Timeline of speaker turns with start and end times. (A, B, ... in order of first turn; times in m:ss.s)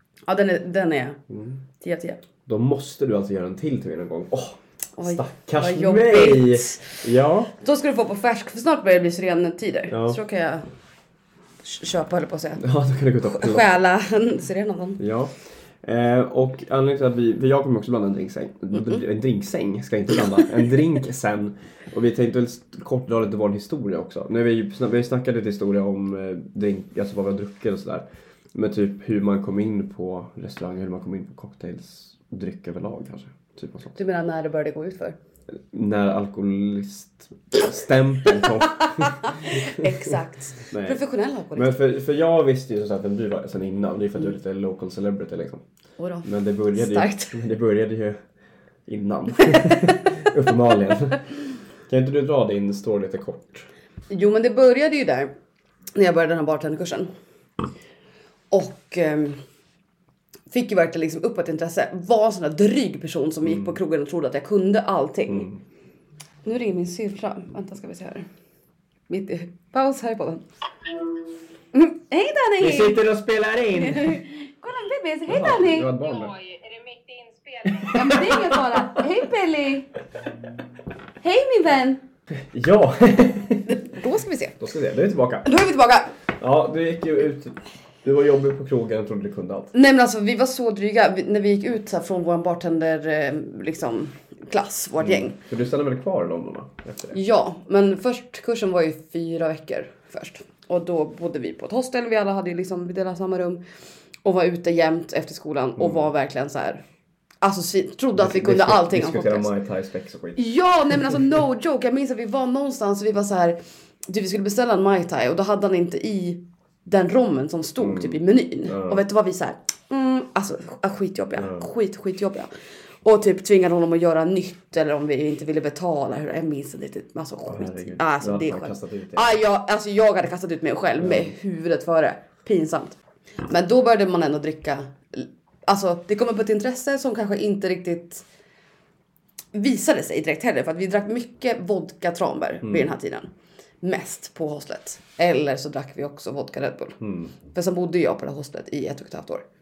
0:00.2-0:01.2 A
0:01.3-0:01.6 B
0:01.8-0:02.2 A
0:02.5-0:07.5 B
0:05.0-0:07.0 A
0:07.6-0:10.6 A
0:09.9-0:10.2 B
0:11.6-0:12.6 A
0:12.6-0:13.7 B
0:13.3-0:15.0 A
0:15.0-0:34.0 B
0:18.7-0:19.0 A
0:34.0-0:35.2 A
0:35.7-0:40.1 B
0:38.7-0:41.7 A
0:40.7-0:41.0 B
0:41.5-0:45.6 B
0:46.0-0:47.4 A
0:46.2-0:48.2 B
0:48.8-0:53.7 B
0:49.5-0:49.8 A
0:54.1-0:55.3 A
0:55.9-0:57.1 A
0:58.5-0:59.4 A
1:00.5-1:05.5 A
1:03.4-1:03.8 B
1:05.3-1:05.6 B
1:06.4-1:08.3 A
1:09.1-1:10.4 A
1:11.7-1:13.0 A
1:12.6-1:14.2 B
1:13.7-1:15.9 A
1:15.3-1:16.4 B
1:15.9-1:18.3 C
1:17.7-1:19.1 B
1:17.9-1:19.9 A
1:21.2-1:22.0 A
1:22.3-1:23.8 B
1:23.6-1:24.6 A
1:24.6-1:25.5 B
1:25.4-1:26.1 A
1:26.4-1:29.7 B
1:29.7-1:35.4 A
1:35.0-1:37.2 B
1:37.1-1:43.6 A
1:44.2-1:46.8 A
1:45.8-1:46.0 B
1:47.4-1:49.5 A
1:48.1-1:50.4 B
1:50.4-1:53.6 A
1:54.1-2:02.5 A
1:57.8-1:59.0 B
2:01.4-2:01.6 B
2:03.0-2:18.2 A
2:07.5-2:09.3 B
2:11.0-2:11.3 B
2:19.5-2:23.3 A
2:22.6-2:22.9 B
2:23.8-2:29.4 A
2:27.0-2:27.3 B